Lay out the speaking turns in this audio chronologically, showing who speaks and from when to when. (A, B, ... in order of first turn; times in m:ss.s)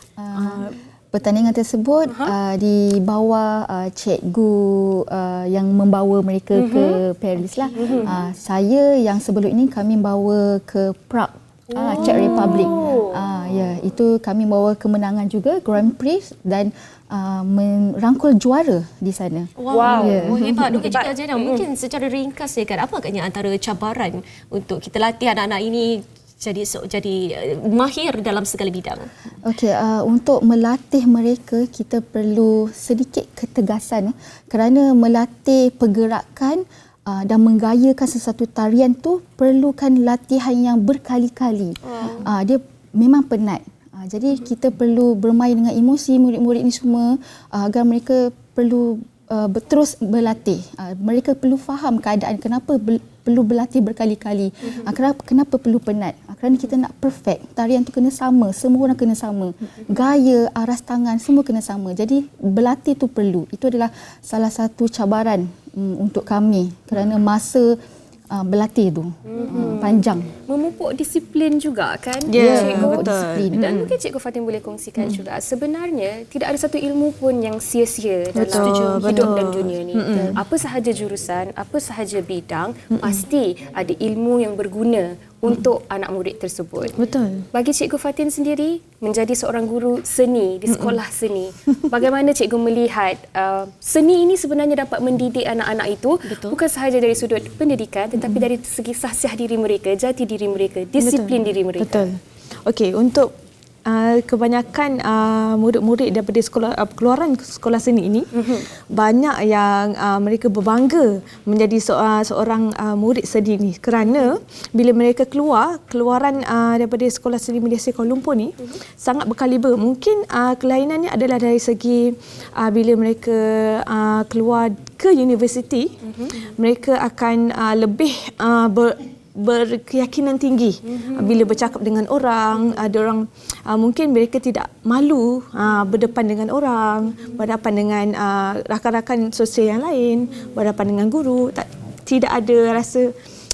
0:00.2-0:20.7 A
0:00.3-0:00.7 B
0:02.1-0:02.3 C
0:06.5-0:07.0 C
0:07.8-0:08.1 C
0:11.7-0:13.2 C
0:12.0-0:12.7 B
0:12.0-0:12.6 D
0:19.6-0:29.1 D
0:19.7-0:21.6 C
0:29.4-1:07.8 A
0:42.0-0:42.2 D
1:08.3-1:10.3 A
1:09.3-1:27.0 C
1:12.3-1:13.9 B
1:12.3-1:13.7 A
1:18.4-1:20.4 B
1:18.5-1:19.3 D
1:20.1-1:20.4 A
1:22.9-1:23.2 B
1:27.0-1:27.4 B
1:27.5-1:42.0 C
1:30.7-1:31.0 B
1:36.3-1:36.6 D
1:38.2-1:38.4 B
1:41.0-1:43.3 B
1:43.8-1:48.3 B
1:48.3-1:48.6 C
1:48.9-2:23.1 B